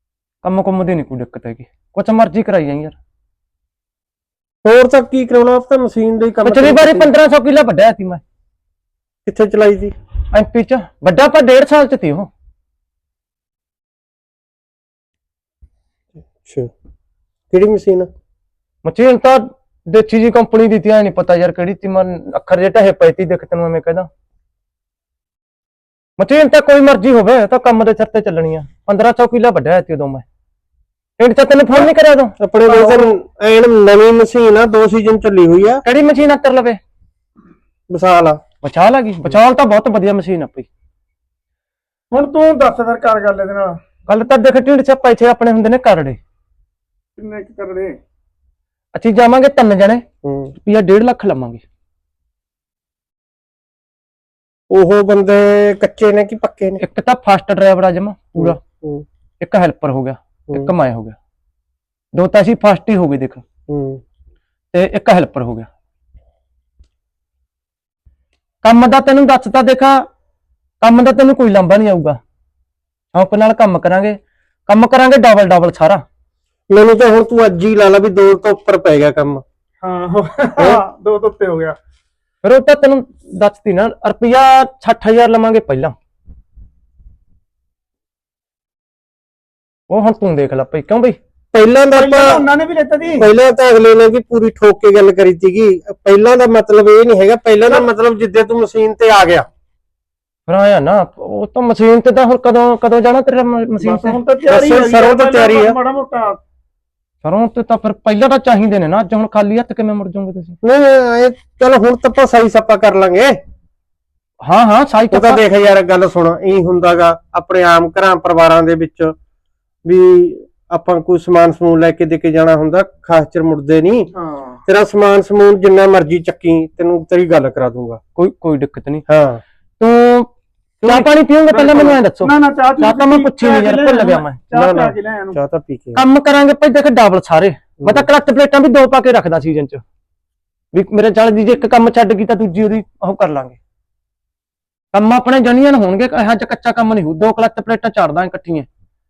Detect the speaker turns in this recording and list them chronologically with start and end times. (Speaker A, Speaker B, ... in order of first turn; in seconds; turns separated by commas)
Speaker A: 0.4-3.0, Speaker B: 4.6-7.1, Speaker A: 6.5-8.2, Speaker B: 9.3-9.9, Speaker A: 10.3-12.3, Speaker B: 16.4-16.7, Speaker B: 17.5-18.1, Speaker A: 18.8-24.1, Speaker A: 26.2-30.2, Speaker A: 31.2-32.4, Speaker B: 31.7-35.8, Speaker C: 32.7-33.1, Speaker A: 35.8-36.8, Speaker B: 37.9-38.4, Speaker A: 38.6-40.7, Speaker C: 42.1-43.8, Speaker A: 44.1-46.2, Speaker C: 47.2-48.0, Speaker A: 49.0-50.0, Speaker B: 50.2-50.5, Speaker A: 50.6-51.6, Speaker B: 54.7-56.8, Speaker A: 56.8-58.6, Speaker B: 58.4-59.0, Speaker A: 59.4-61.2, Speaker A: 62.1-63.4, Speaker B: 63.7-64.0, Speaker A: 64.7-65.7, Speaker A: 68.6-70.0, Speaker A: 70.8-72.2, Speaker A: 73.1-76.0, Speaker B: 76.7-79.4, Speaker C: 79.8-81.8, Speaker A: 82.4-85.9, Speaker A: 89.9-91.2, Speaker B: 91.5-92.4, Speaker C: 91.9-93.3, Speaker B: 93.2-99.5, Speaker A: 100.5-104.2, Speaker C: 103.8-106.4, Speaker B: 104.5-105.8, Speaker A: 107.2-110.6, Speaker B: 110.6-113.4, Speaker A: 114.4-115.4, Speaker B: 115.1-119.2, Speaker B: 119.8-124.1, Speaker C: 124.1-124.6, Speaker B: 124.7-128.0, Speaker A: 128.2-129.0, Speaker B: 129.1-129.4, Speaker A: 129.8-130.3, Speaker B: 130.8-131.1, Speaker A: 130.8-134.4, Speaker C: 131.5-135.4, Speaker B: 134.5-136.0, Speaker A: 135.9-139.8, Speaker B: 137.8-138.1, Speaker A: 140.7-143.6, Speaker A: 144.9-148.7